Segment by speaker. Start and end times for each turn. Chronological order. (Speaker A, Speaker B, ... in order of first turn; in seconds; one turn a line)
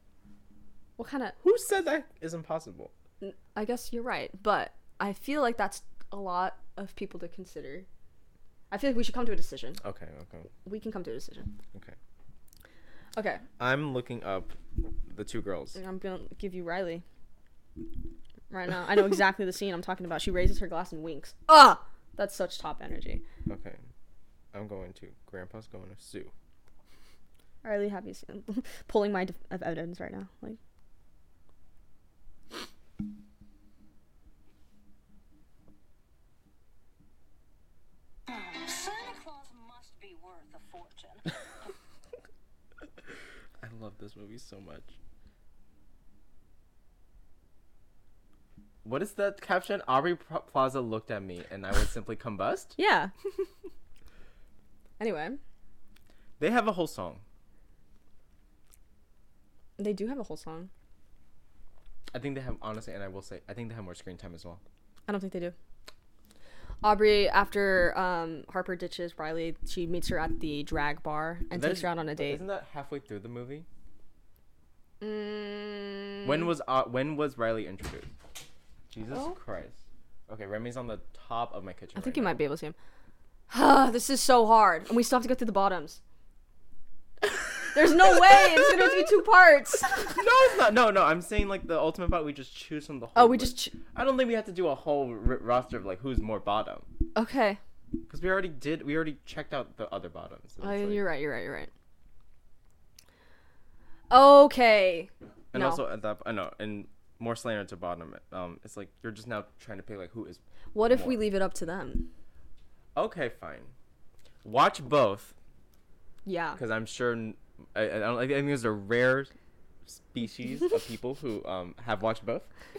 Speaker A: 1.0-1.4
Speaker B: 1.4-2.9
Speaker A: 3.2-7.9
Speaker A: 8.7-9.8
Speaker B: 9.8-10.5
Speaker A: 10.6-11.5
Speaker A: 13.1-13.4
Speaker B: 13.6-14.6
Speaker B: 15.1-15.8
Speaker A: 15.8-17.0
Speaker A: 18.5-23.2
Speaker B: 23.5-23.8
Speaker B: 24.5-26.3
Speaker A: 27.6-30.6
Speaker C: 38.3-41.6
Speaker B: 43.6-45.0
Speaker B: 48.8-52.8
Speaker A: 52.8-53.1
Speaker A: 55.0-55.4
Speaker B: 56.4-57.2
Speaker A: 59.8-60.7
Speaker B: 62.1-64.6
Speaker A: 65.1-65.5
Speaker A: 66.8-72.4
Speaker B: 71.5-73.7
Speaker A: 75.0-76.5
Speaker B: 76.2-78.1
Speaker B: 78.9-82.4
Speaker A: 79.1-79.4
Speaker A: 82.0-82.7
Speaker A: 83.5-86.0
Speaker A: 87.7-90.2
Speaker B: 90.0-96.9
Speaker A: 93.1-93.8
Speaker A: 97.1-97.6
Speaker B: 98.1-101.0
Speaker A: 100.6-101.7
Speaker A: 104.1-105.8
Speaker B: 105.5-111.2
Speaker A: 110.7-112.1
Speaker B: 112.9-113.7
Speaker B: 114.4-115.3
Speaker A: 116.2-116.6
Speaker B: 116.6-119.3
Speaker B: 119.8-122.5